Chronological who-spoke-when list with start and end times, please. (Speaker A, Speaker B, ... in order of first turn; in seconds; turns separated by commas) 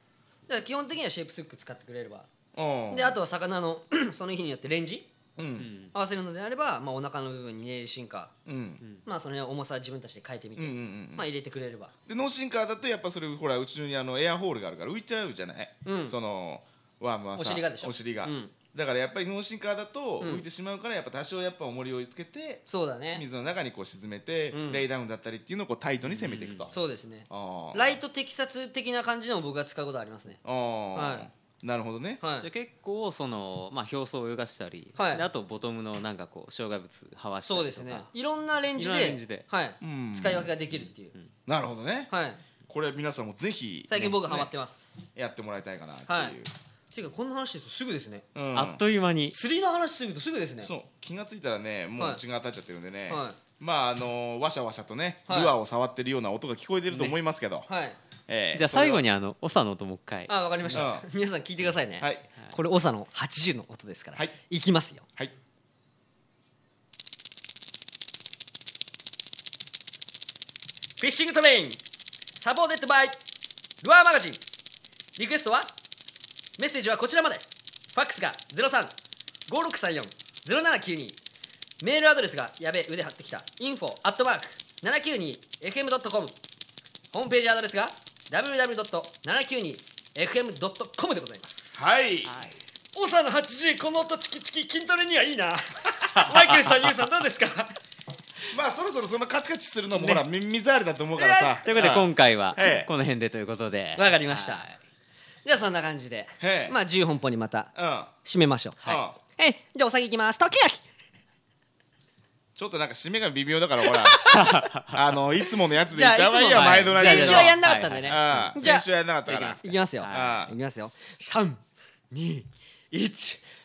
Speaker A: 0.5-2.3, Speaker B: 2.5-3.2, Speaker A: 2.9-5.1, Speaker B: 5.4-5.7, Speaker C: 5.6-5.9, Speaker A: 5.9-8.3, Speaker B: 8.5-8.8, Speaker A: 9.1-11.9, Speaker B: 10.6-11.3, Speaker B: 12.1-26.7, Speaker A: 15.8-16.2, Speaker A: 17.3-18.5, Speaker A: 22.7-23.2, Speaker A: 24.5-24.9, Speaker C: 26.0-26.7, Speaker A: 26.7-30.4, Speaker B: 27.3-28.0, Speaker B: 30.4-32.2, Speaker A: 30.9-31.3, Speaker A: 32.2-32.5, Speaker C: 32.4-38.1, Speaker A: 35.0-35.2, Speaker A: 37.4-41.1, Speaker C: 38.8-39.5, Speaker B: 39.8-40.5, Speaker C: 40.7-41.2, Speaker B: 41.5-42.1, Speaker A: 42.1-42.4, Speaker B: 42.7-44.5, Speaker A: 43.9-45.0, Speaker B: 45.1-46.5, Speaker A: 46.1-46.4, Speaker A: 46.9-48.3, Speaker B: 48.4-48.8, Speaker C: 48.5-49.4, Speaker A: 49.3-50.7, Speaker B: 50.6-57.7, Speaker A: 52.0-52.2, Speaker A: 53.1-53.4, Speaker A: 55.3-55.6, Speaker C: 56.9-57.2, Speaker A: 57.7-58.0, Speaker B: 58.3-59.0, Speaker C: 58.5-60.9, Speaker A: 60.3-65.0, Speaker B: 60.7-61.1, Speaker B: 62.0-62.2, Speaker A: 71.0-71.8, Speaker A: 72.4-73.2, Speaker A: 73.8-74.4, Speaker A: 75.2-75.7, Speaker A: 76.6-78.9, Speaker A: 79.5-81.2, Speaker A: 81.8-86.4, Speaker A: 87.1-91.8, Speaker B: 91.8-92.4, Speaker C: 92.3-92.6, Speaker A: 92.9-97.8, Speaker C: 96.2-96.5, Speaker B: 98.5-102.9, Speaker C: 99.9-100.2, Speaker A: 101.2-101.7, Speaker C: 101.6-104.8, Speaker A: 104.0-104.7, Speaker A: 105.5-110.8, Speaker B: 106.4-106.8, Speaker B: 107.8-108.1, Speaker B: 108.8-109.2, Speaker B: 112.6-114.4, Speaker A: 114.2-114.6, Speaker C: 114.3-115.0, Speaker B: 114.9-120.5, Speaker A: 115.9-123.4, Speaker C: 116.5-118.7, Speaker C: 120.0-120.4